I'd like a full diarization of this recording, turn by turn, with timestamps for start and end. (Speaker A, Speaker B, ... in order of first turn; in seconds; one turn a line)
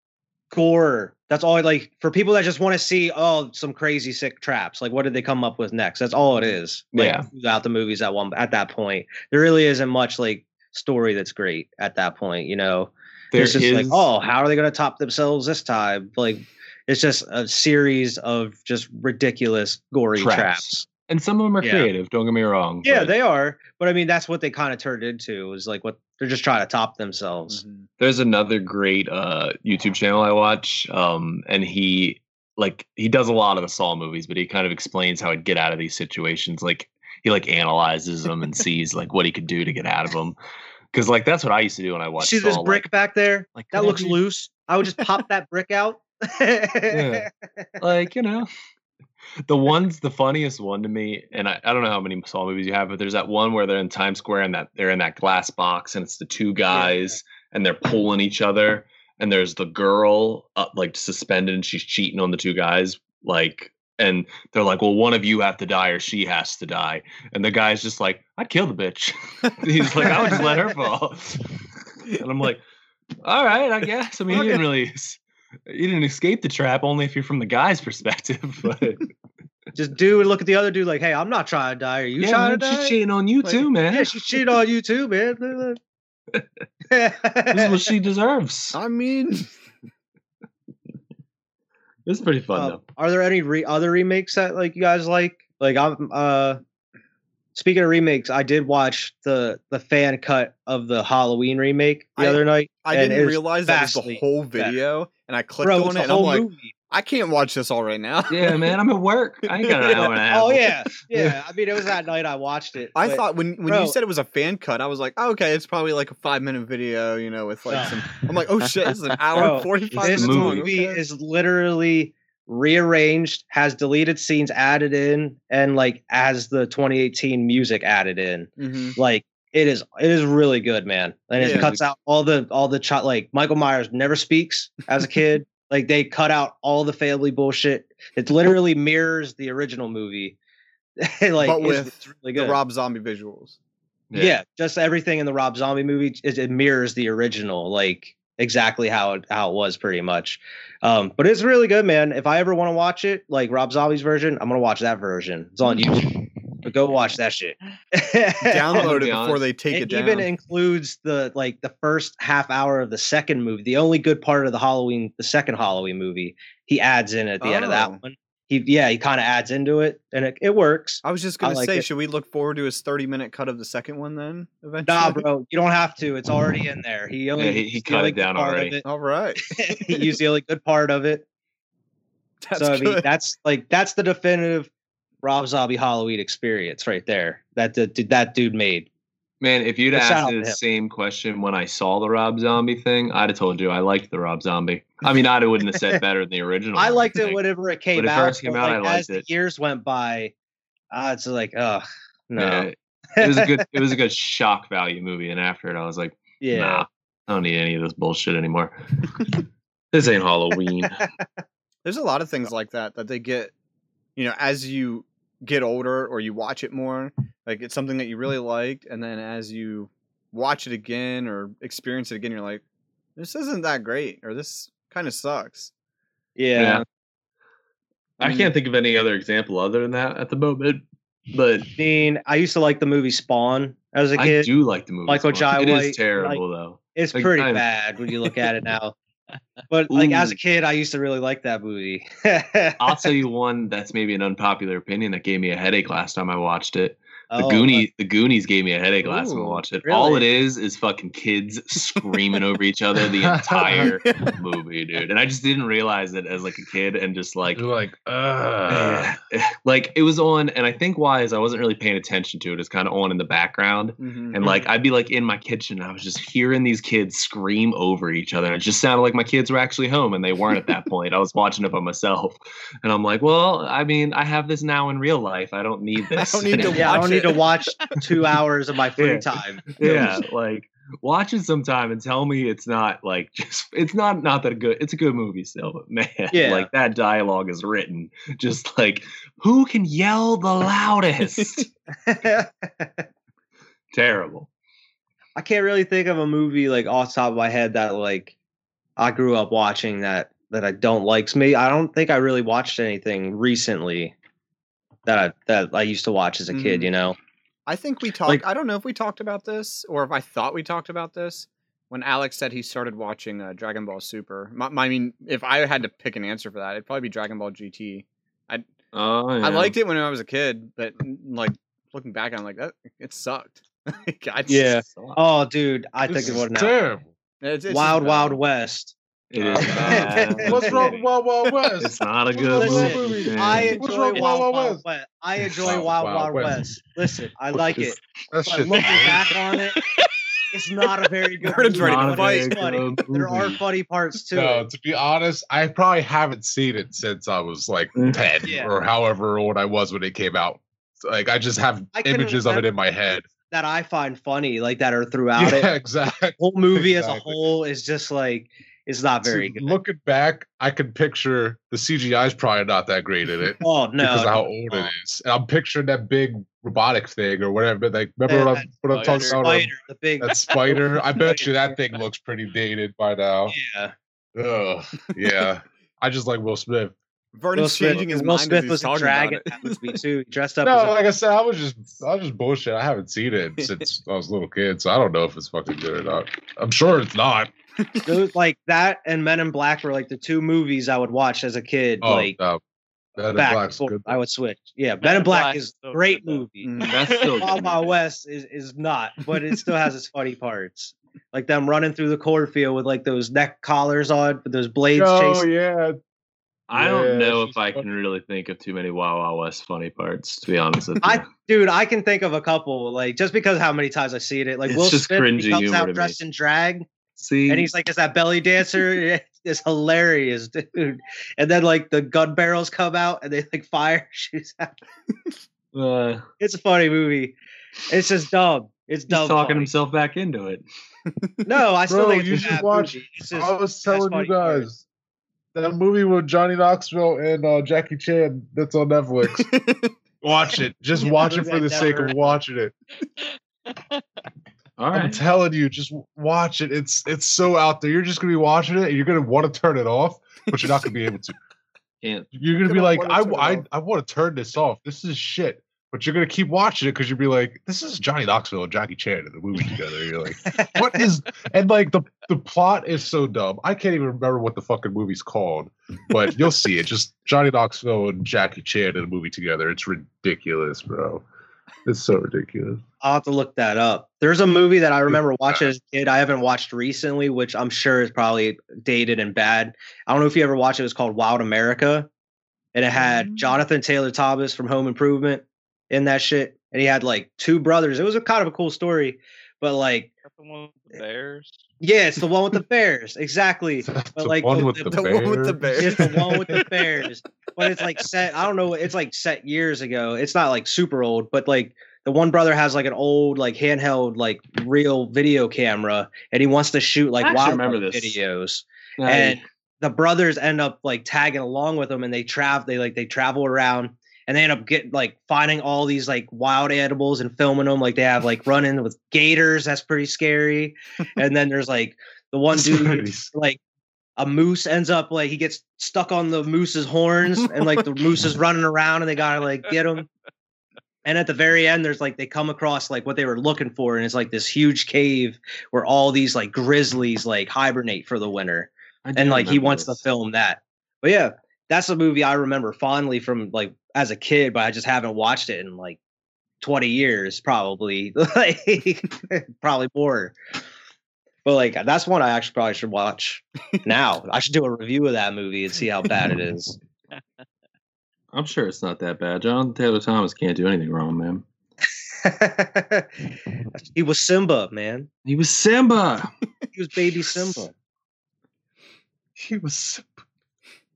Speaker A: 0.5-20.9
Speaker B: 6.9-7.3
Speaker B: 13.3-14.1
Speaker B: 20.1-23.1
Speaker A: 21.6-21.9
Speaker A: 22.8-27.6
Speaker C: 27.5-27.9
Speaker B: 28.0-40.4
Speaker B: 40.9-42.9
Speaker A: 42.2-47.3
Speaker B: 43.5-44.2
Speaker B: 46.9-47.3
Speaker B: 47.8-48.5
Speaker B: 49.5-71.5
Speaker A: 56.7-57.1
Speaker A: 70.0-70.5
Speaker B: 72.2-72.6
Speaker B: 73.2-79.0
Speaker C: 74.3-74.6
Speaker A: 79.7-83.0
Speaker B: 82.2-84.1
Speaker A: 83.9-85.8
Speaker A: 86.9-87.9
Speaker B: 87.5-88.8
Speaker C: 88.7-89.5
Speaker B: 92.0-92.8
Speaker A: 92.5-96.6
Speaker A: 97.5-104.7
Speaker C: 102.2-108.8
Speaker A: 105.6-106.7
Speaker B: 108.3-111.4
Speaker C: 109.5-110.1
Speaker A: 109.9-114.0
Speaker C: 112.9-121.0
Speaker A: 117.7-118.0
Speaker A: 119.3-140.4
Speaker B: 119.9-120.7
Speaker C: 128.6-129.0
Speaker C: 131.4-131.8
Speaker A: 141.0-142.6
Speaker C: 141.4-143.6
Speaker B: 144.1-144.4
Speaker A: 144.1-159.0
Speaker C: 158.4-160.3
Speaker B: 158.7-159.4
Speaker A: 159.7-171.8
Speaker C: 167.4-168.0
Speaker C: 171.0-175.2
Speaker A: 174.8-178.8
Speaker B: 177.3-178.8
Speaker C: 178.8-180.2
Speaker A: 179.4-181.2
Speaker C: 182.4-183.1
Speaker A: 182.5-184.7
Speaker A: 185.2-188.9
Speaker B: 189.4-197.4
Speaker A: 189.9-190.6
Speaker A: 196.7-200.3
Speaker B: 197.9-199.2
Speaker A: 200.9-203.6
Speaker B: 202.3-209.4
Speaker A: 206.4-206.8
Speaker B: 209.9-211.0
Speaker C: 211.8-213.5
Speaker C: 214.2-222.6
Speaker C: 223.2-225.7
Speaker A: 226.3-226.8
Speaker B: 226.5-226.8
Speaker B: 228.2-231.7
Speaker C: 228.2-228.5
Speaker A: 231.8-234.5
Speaker B: 234.2-237.7
Speaker A: 235.1-236.4
Speaker A: 236.9-238.9
Speaker A: 239.7-243.1
Speaker B: 239.9-240.4
Speaker B: 242.8-257.6
Speaker A: 247.3-247.8
Speaker C: 249.0-249.6
Speaker A: 249.8-250.3
Speaker D: 253.2-253.9
Speaker C: 253.7-254.4
Speaker D: 257.5-259.1
Speaker B: 258.7-277.3
Speaker C: 264.0-264.6
Speaker C: 276.1-277.5
Speaker A: 276.7-280.1
Speaker B: 278.9-291.7
Speaker A: 286.3-286.7
Speaker C: 291.4-291.6
Speaker A: 292.1-293.1
Speaker B: 293.9-294.5
Speaker A: 295.4-298.3
Speaker A: 299.0-304.1
Speaker A: 305.1-307.2
Speaker C: 306.5-306.9
Speaker C: 307.7-318.7
Speaker B: 318.9-319.7
Speaker C: 319.4-324.8
Speaker A: 324.5-326.8
Speaker B: 324.8-325.2
Speaker D: 326.1-327.1
Speaker C: 327.4-328.4
Speaker A: 327.7-328.9
Speaker B: 329.3-331.1
Speaker D: 329.5-334.8
Speaker A: 329.6-331.0
Speaker B: 331.8-333.8
Speaker A: 332.5-339.8
Speaker D: 335.6-336.6
Speaker B: 337.6-338.0
Speaker D: 338.3-339.3
Speaker A: 340.5-344.6
Speaker C: 341.4-342.7
Speaker B: 341.8-343.6
Speaker D: 344.3-353.3
Speaker B: 347.9-348.2
Speaker A: 348.4-348.7
Speaker A: 351.9-352.7
Speaker A: 353.3-355.7
Speaker D: 355.3-357.4
Speaker A: 356.4-359.8
Speaker D: 359.2-373.6
Speaker A: 363.6-364.9
Speaker A: 368.3-371.8
Speaker E: 368.9-369.4
Speaker A: 373.5-373.9
Speaker D: 374.3-376.9
Speaker C: 377.3-380.0
Speaker A: 377.5-380.9
Speaker D: 380.6-387.5
Speaker C: 387.8-388.2
Speaker A: 388.1-392.4
Speaker D: 392.0-392.6
Speaker D: 393.2-394.2
Speaker A: 393.3-396.8
Speaker E: 395.0-397.3
Speaker C: 396.6-397.0
Speaker B: 396.9-398.0
Speaker A: 397.4-405.5
Speaker D: 404.9-406.0
Speaker B: 406.7-411.3
Speaker D: 406.7-407.9
Speaker A: 411.0-416.9
Speaker B: 414.6-416.1
Speaker B: 417.2-417.7
Speaker A: 417.5-424.7
Speaker B: 425.7-426.2
Speaker A: 426.4-427.4
Speaker A: 427.9-429.7
Speaker B: 429.1-430.6
Speaker A: 431.4-434.7
Speaker D: 431.9-434.8
Speaker D: 435.5-439.5
Speaker C: 439.3-439.9
Speaker D: 440.2-442.7
Speaker A: 440.9-442.4
Speaker B: 444.8-445.2
Speaker D: 444.9-451.4
Speaker B: 452.0-452.3
Speaker D: 452.3-471.2
Speaker C: 452.7-453.6
Speaker A: 460.5-461.0
Speaker D: 471.8-472.8
Speaker A: 473.0-482.1
Speaker D: 475.1-475.6
Speaker A: 482.7-490.1
Speaker C: 483.0-483.6
Speaker E: 490.2-491.6
Speaker A: 491.8-495.0
Speaker D: 493.8-496.6
Speaker C: 494.9-497.0
Speaker A: 495.8-523.6
Speaker B: 507.2-508.2
Speaker B: 509.0-509.4
Speaker B: 522.5-523.2
Speaker A: 524.2-530.1
Speaker A: 531.0-546.0
Speaker B: 539.0-540.0
Speaker A: 546.6-550.4
Speaker A: 551.4-556.8
Speaker B: 558.3-561.4
Speaker A: 562.2-563.1
Speaker A: 563.8-565.1
Speaker B: 565.2-566.3
Speaker A: 566.7-567.7
Speaker D: 569.4-570.1